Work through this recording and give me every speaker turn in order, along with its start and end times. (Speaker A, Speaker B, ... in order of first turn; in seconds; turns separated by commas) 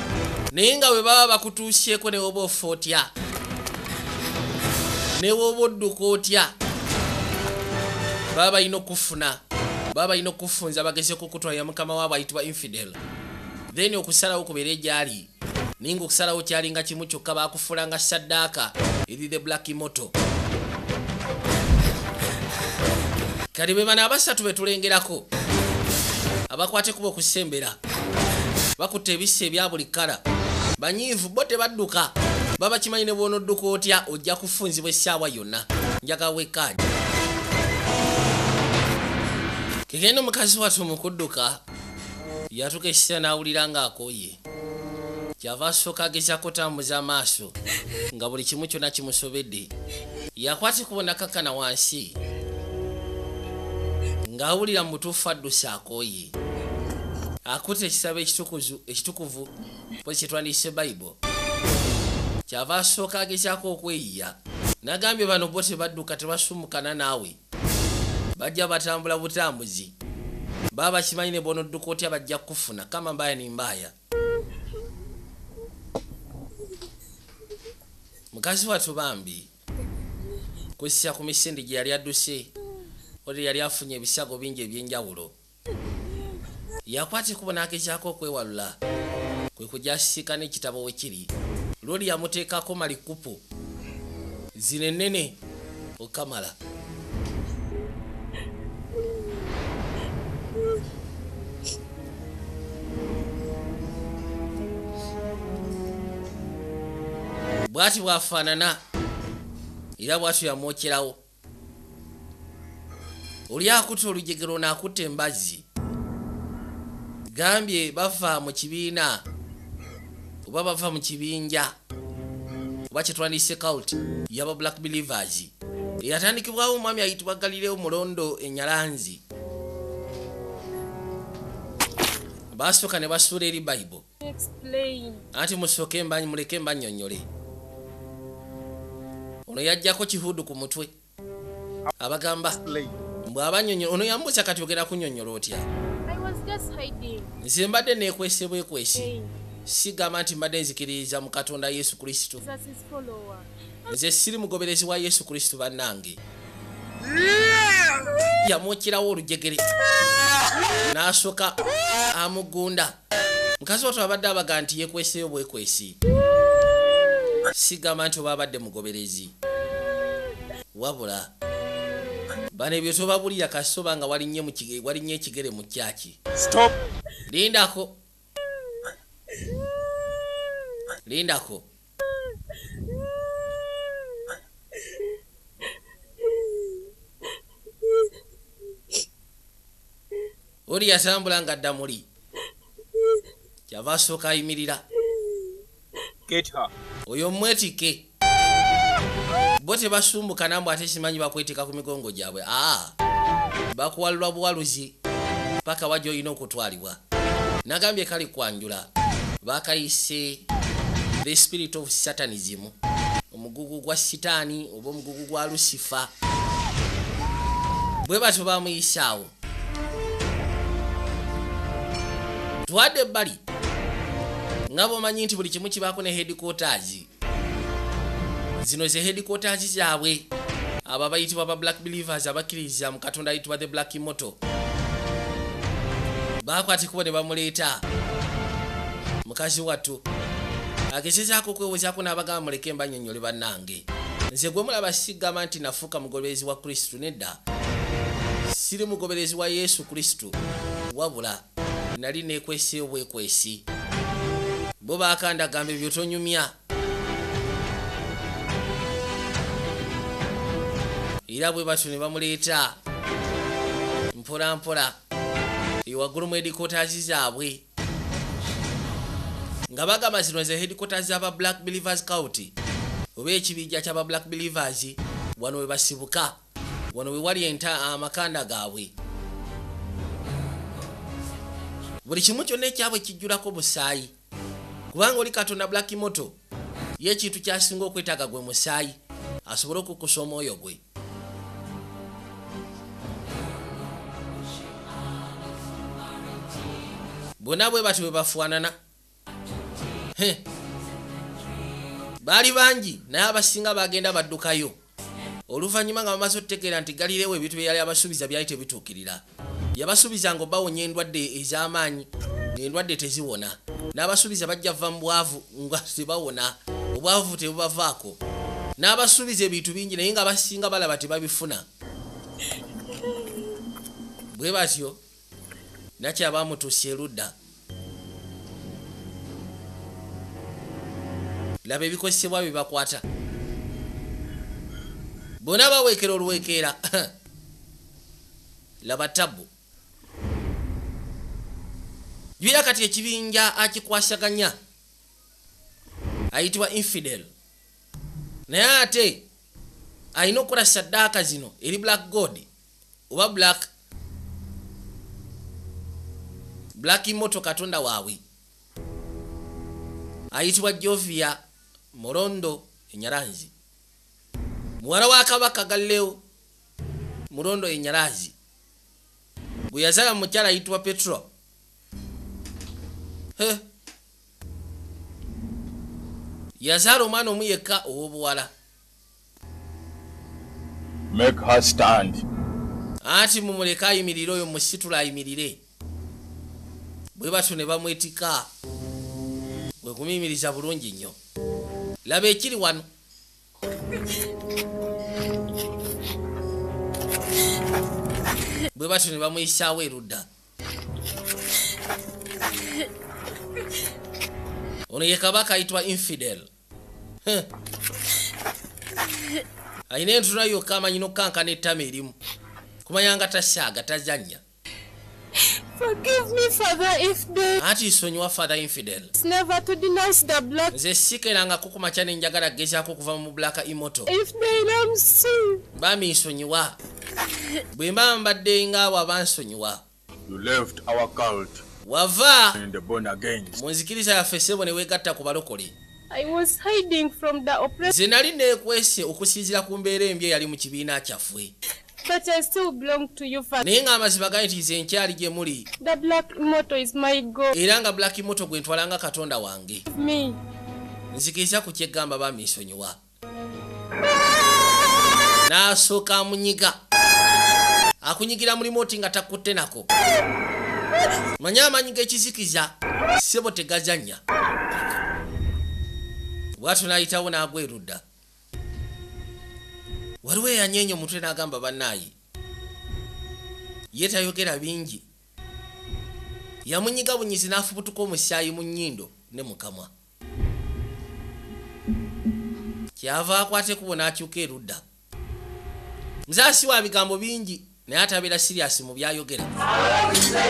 Speaker A: 0.5-3.1, Speaker A: 5.2-6.5, Speaker A: 8.3-9.4, Speaker A: 9.9-13.0, Speaker A: 13.7-20.1, Speaker A: 23.5-25.3, Speaker A: 26.5-27.8, Speaker A: 28.8-30.2, Speaker A: 30.8-36.8, Speaker A: 39.9-41.6, Speaker A: 42.5-44.4, Speaker A: 45.4-47.5, Speaker A: 48.1-49.7, Speaker A: 50.4-52.2, Speaker A: 54.2-56.3, Speaker A: 57.5-59.5, Speaker A: 60.0-61.2, Speaker A: 62.5-67.4, Speaker A: 68.4-69.9, Speaker A: 70.7-73.9, Speaker A: 78.3-79.5, Speaker A: 80.8-82.5, Speaker A: 83.2-85.3, Speaker A: 86.9-88.8, Speaker A: 89.6-91.3, Speaker A: 91.8-93.4, Speaker A: 94.6-95.4, Speaker A: 96.0-96.5, Speaker A: 107.7-108.8, Speaker A: 110.0-111.2, Speaker A: 113.5-115.7, Speaker A: 117.3-119.2, Speaker A: 120.5-121.7, Speaker A: 122.9-129.2, Speaker A: 132.6-134.0, Speaker B: 134.2-135.2, Speaker A: 135.3-137.3, Speaker A: 139.5-140.9, Speaker A: 142.0-142.6, Speaker C: 142.6-142.9, Speaker A: 143.3-145.7, Speaker B: 146.1-147.3, Speaker A: 147.4-149.1, Speaker B: 149.0-149.3, Speaker A: 149.7-152.4, Speaker B: 152.4-153.5, Speaker A: 153.9-156.2, Speaker A: 158.4-159.6, Speaker A: 160.9-161.6, Speaker A: 162.1-162.9, Speaker A: 163.6-166.0, Speaker A: 167.5-169.3, Speaker A: 170.7-171.3, Speaker A: 172.5-176.2, Speaker C: 176.4-176.8, Speaker A: 177.3-178.0, Speaker A: 181.1-181.7, Speaker A: 190.7-192.1, Speaker A: 193.7-194.8, Speaker C: 196.3-196.7, Speaker A: 197.1-198.1, Speaker A: 199.6-202.9, Speaker A: 203.7-205.0, Speaker A: 205.7-207.0, Speaker A: 207.7-208.9, Speaker A: 209.4-210.5, Speaker A: 211.2-212.8, Speaker A: 213.3-216.1, Speaker A: 218.0-219.3, Speaker A: 222.7-223.4, Speaker A: 224.7-227.1, Speaker A: 228.6-230.3, Speaker A: 230.9-234.4, Speaker A: 236.4-237.8, Speaker A: 239.2-240.0, Speaker A: 240.9-247.4, Speaker A: 248.5-250.4, Speaker A: 250.9-251.4, Speaker A: 252.0-253.6, Speaker A: 254.8-256.5, Speaker A: 261.3-262.8, Speaker A: 264.1-265.0, Speaker A: 265.9-267.6, Speaker A: 269.7-272.5, Speaker A: 273.1-276.4, Speaker A: 276.9-278.9, Speaker A: 282.1-284.1, Speaker A: 284.9-286.4, Speaker A: 287.0-290.8, Speaker A: 297.4-298.8, Speaker A: 300.2-300.4, Speaker A: 302.2-304.8, Speaker A: 305.5-309.2, Speaker A: 309.8-318.2, Speaker A: 318.8-321.6, Speaker A: 324.3-325.0, Speaker A: 326.0-327.3, Speaker A: 331.6-333.0, Speaker A: 335.4-337.1, Speaker A: 338.8-339.5, Speaker A: 342.4-344.6, Speaker A: 346.3-347.3, Speaker A: 348.5-349.2, Speaker A: 350.2-352.5, Speaker A: 353.1-353.7, Speaker A: 356.8-358.2, Speaker A: 360.3-361.4, Speaker A: 361.9-363.5, Speaker A: 364.8-366.2, Speaker A: 367.3-368.3, Speaker A: 369.7-371.3, Speaker A: 373.4-373.6, Speaker A: 376.6-378.5, Speaker C: 381.1-382.2, Speaker A: 383.0-385.6, Speaker A: 387.2-388.5, Speaker A: 389.8-391.2, Speaker A: 392.1-392.9, Speaker A: 398.8-400.3, Speaker A: 404.9-406.5, Speaker A: 409.9-412.1, Speaker A: 412.9-414.4, Speaker B: 415.4-417.6, Speaker A: 417.6-419.1, Speaker B: 419.2-420.7, Speaker A: 420.7-424.1, Speaker B: 424.1-425.6, Speaker A: 425.8-426.8, Speaker A: 427.7-429.8, Speaker C: 430.3-431.6, Speaker A: 431.9-432.6, Speaker C: 432.6-433.6, Speaker A: 433.6-435.8, Speaker B: 436.1-437.9, Speaker A: 437.9-441.5, Speaker B: 442.0-443.6, Speaker A: 443.6-445.7, Speaker B: 445.8-447.5, Speaker A: 447.5-449.8, Speaker B: 449.9-450.4, Speaker A: 451.1-453.0, Speaker A: 455.5-456.8, Speaker A: 458.0-459.9, Speaker A: 461.4-464.2, Speaker A: 466.6-468.0, Speaker A: 470.2-472.1, Speaker A: 473.9-475.1, Speaker A: 476.6-479.9, Speaker A: 483.0-484.8, Speaker A: 486.3-489.5